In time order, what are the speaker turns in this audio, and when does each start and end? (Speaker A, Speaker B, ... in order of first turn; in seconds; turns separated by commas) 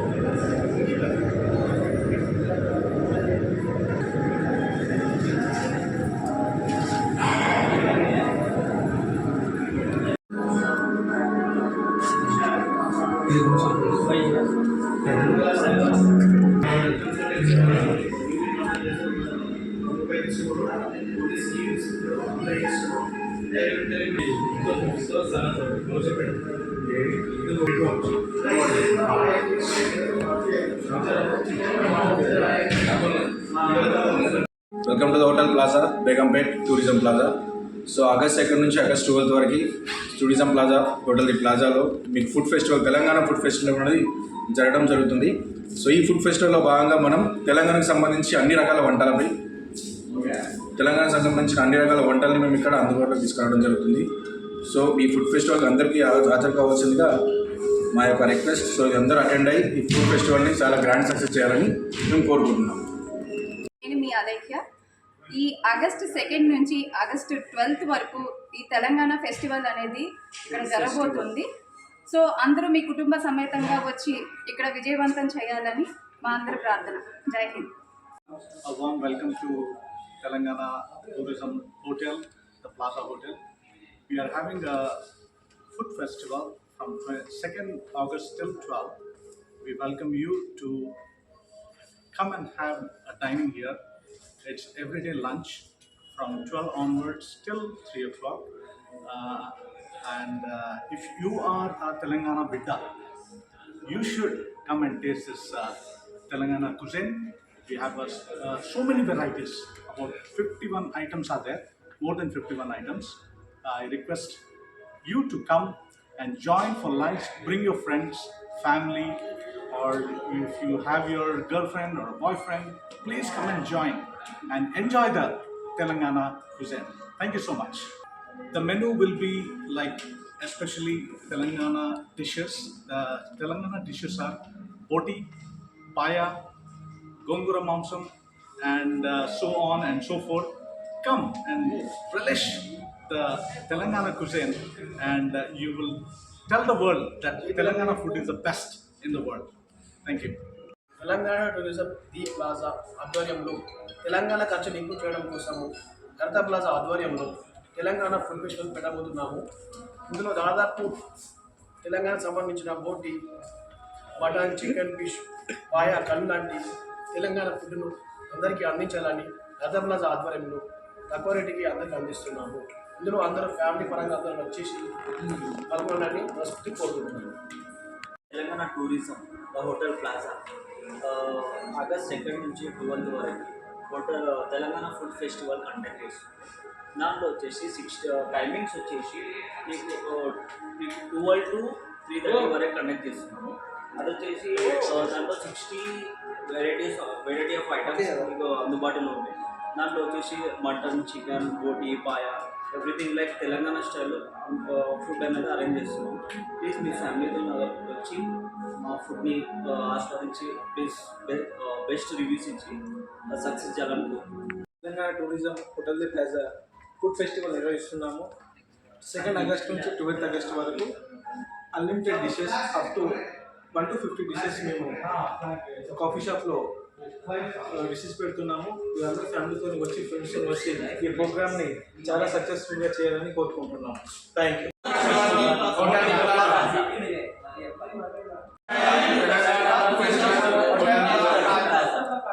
Speaker A: 13.4-13.9, Speaker A: 15.1-15.6, Speaker A: 17.0-18.0, Speaker A: 18.6-19.1, Speaker A: 20.2-21.1, Speaker A: 21.8-22.6, Speaker A: 23.5-26.3, Speaker B: 33.8-34.3, Speaker B: 34.8-37.3, Speaker B: 37.9-49.4, Speaker B: 50.1-54.1, Speaker B: 54.6-57.1, Speaker B: 57.9-62.8, Speaker C: 63.8-64.6, Speaker C: 65.3-71.5, Speaker B: 70.6-71.1, Speaker C: 72.1-77.7, Speaker D: 78.6-83.4, Speaker D: 84.1-85.0, Speaker D: 85.7-89.0, Speaker D: 89.6-91.0, Speaker D: 92.1-93.8, Speaker D: 94.4-98.5, Speaker D: 99.0-102.9, Speaker D: 103.8-105.8, Speaker D: 106.3-114.4, Speaker D: 115.0-127.9, Speaker D: 128.5-135.3, Speaker D: 135.9-136.4, Speaker D: 137.2-149.5, Speaker E: 147.4-148.3, Speaker D: 150.0-150.4, Speaker E: 151.0-159.4, Speaker E: 160.1-160.9, Speaker E: 161.8-163.2, Speaker E: 164.2-174.9, Speaker E: 175.7-177.3, Speaker F: 178.3-180.4, Speaker F: 181.0-186.3, Speaker F: 186.9-214.3, Speaker G: 214.8-218.3, Speaker G: 219.0-220.9, Speaker G: 221.7-223.2, Speaker G: 223.7-225.3, Speaker G: 225.9-226.7, Speaker G: 227.3-236.3, Speaker F: 235.6-236.9, Speaker F: 239.3-241.9, Speaker B: 239.5-240.3